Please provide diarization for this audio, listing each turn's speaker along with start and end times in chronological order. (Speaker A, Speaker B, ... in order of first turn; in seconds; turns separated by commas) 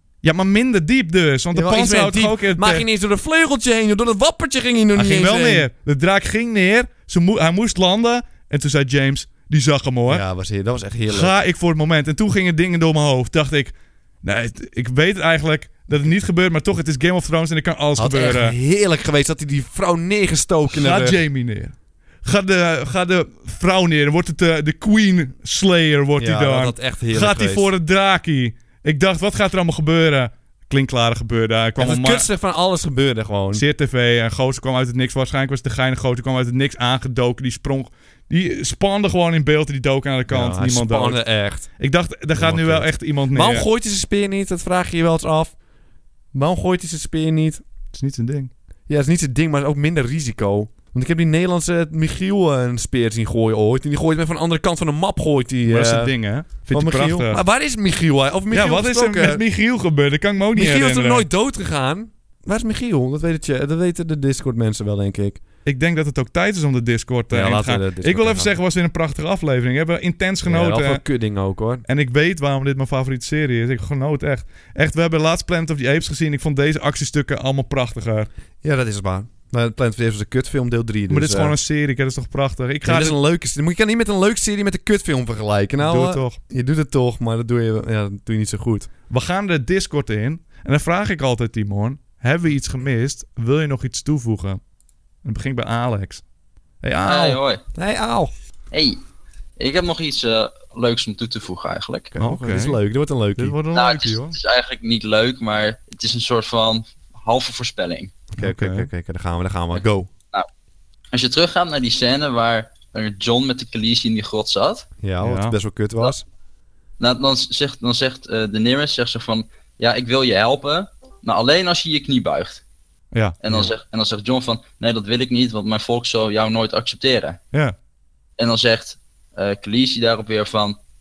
Speaker A: 0.2-2.9, Speaker B: 1.5-5.7, Speaker A: 4.9-10.2, Speaker B: 10.1-11.3, Speaker A: 11.1-18.6, Speaker B: 18.0-21.2, Speaker A: 20.7-32.3, Speaker B: 26.2-27.7, Speaker B: 31.8-33.6, Speaker A: 33.5-41.2, Speaker B: 40.3-41.7, Speaker A: 41.8-43.6, Speaker B: 42.3-45.5, Speaker B: 46.3-47.6, Speaker A: 47.9-48.5, Speaker B: 48.9-59.4, Speaker A: 55.6-57.4, Speaker A: 58.5-61.3, Speaker B: 60.5-65.4, Speaker A: 65.6-71.0, Speaker B: 67.3-68.5, Speaker B: 70.4-71.8, Speaker A: 71.9-78.3, Speaker B: 78.6-81.5, Speaker A: 81.1-83.2, Speaker B: 82.8-88.9, Speaker A: 85.8-86.4, Speaker A: 89.1-94.6, Speaker A: 95.2-96.2, Speaker A: 96.8-97.4, Speaker C: 97.0-97.6, Speaker B: 97.7-98.3, Speaker C: 98.7-99.0, Speaker C: 99.6-102.1, Speaker B: 102.1-103.5, Speaker A: 102.2-102.8, Speaker A: 103.4-104.3, Speaker C: 103.7-108.1, Speaker B: 108.3-110.1, Speaker A: 108.4-108.9, Speaker C: 111.1-114.8, Speaker B: 115.0-116.2, Speaker A: 115.2-115.5, Speaker C: 117.0-122.6, Speaker A: 123.1-123.6, Speaker C: 123.4-127.4, Speaker C: 128.4-130.8